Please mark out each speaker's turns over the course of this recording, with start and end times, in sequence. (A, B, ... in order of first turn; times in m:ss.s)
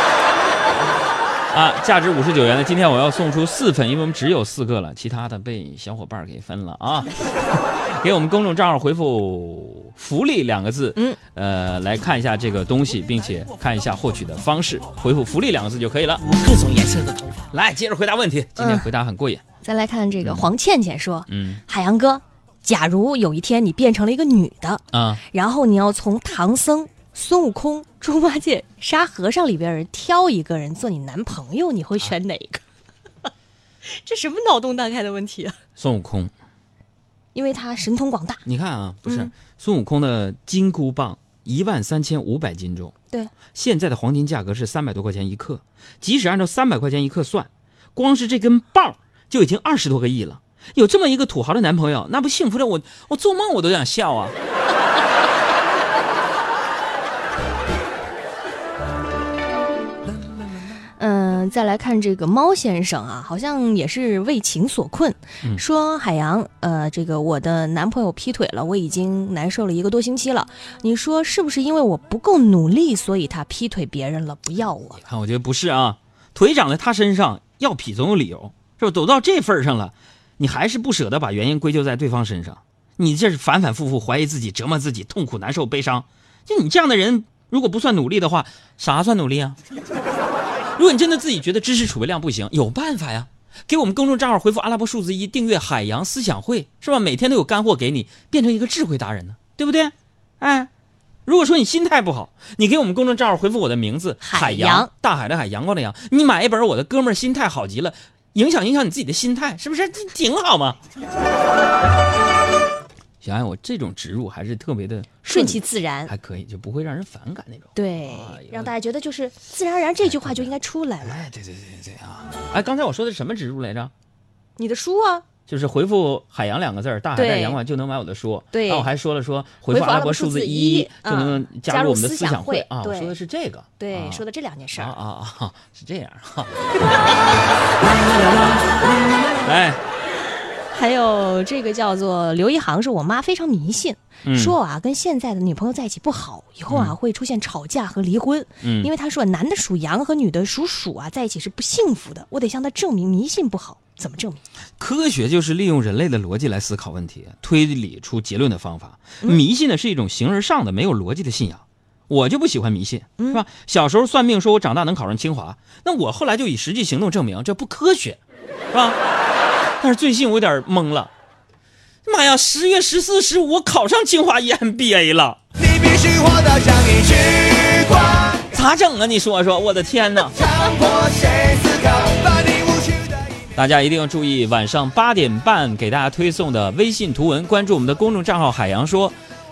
0:01.5-0:16.4 A
0:16.4-0:17.3 B
0:17.5-0:19.4 A
0:18.6-0:18.9 C
0:19.6-0:32.6 C
0:20.2-0:20.5 A
0:21.3-0:21.6 A
0:24.9-0:25.2 A
0:33.8-0:35.6 C
0:35.8-0:36.3 A
0:37.3-0:38.4 C
0:38.4-0:42.9 A
0:39.0-0:39.3 C
0:43.5-0:54.3 A
1:01.0-1:15.0 C
1:15.0-1:29.6 A
1:30.8-1:40.7 A
1:41.2-1:50.8 A
1:44.2-1:44.9 C
1:53.2-1:58.7 A
1:55.2-1:56.1 C
1:57.7-2:01.2 C
2:00.0-2:03.9 A
2:04.6-2:05.2 C
2:05.5-2:14.2 A
2:07.1-2:07.6 C
2:08.5-2:08.9 C
2:09.7-2:13.2 C
2:13.8-2:14.9 C
2:14.8-2:16.5 A
2:19.4-2:19.8 A
2:20.7-2:34.4 C
2:24.2-2:24.6 A
2:26.7-2:26.9 A
2:28.6-2:28.9 A
2:34.8-2:48.2 A
2:48.7-2:49.0 A
2:49.8-2:51.1 A
2:52.0-2:55.4 A
2:55.8-2:57.9 B
2:58.3-3:00.5 A
3:00.6-3:02.8 B
3:03.5-3:09.2 A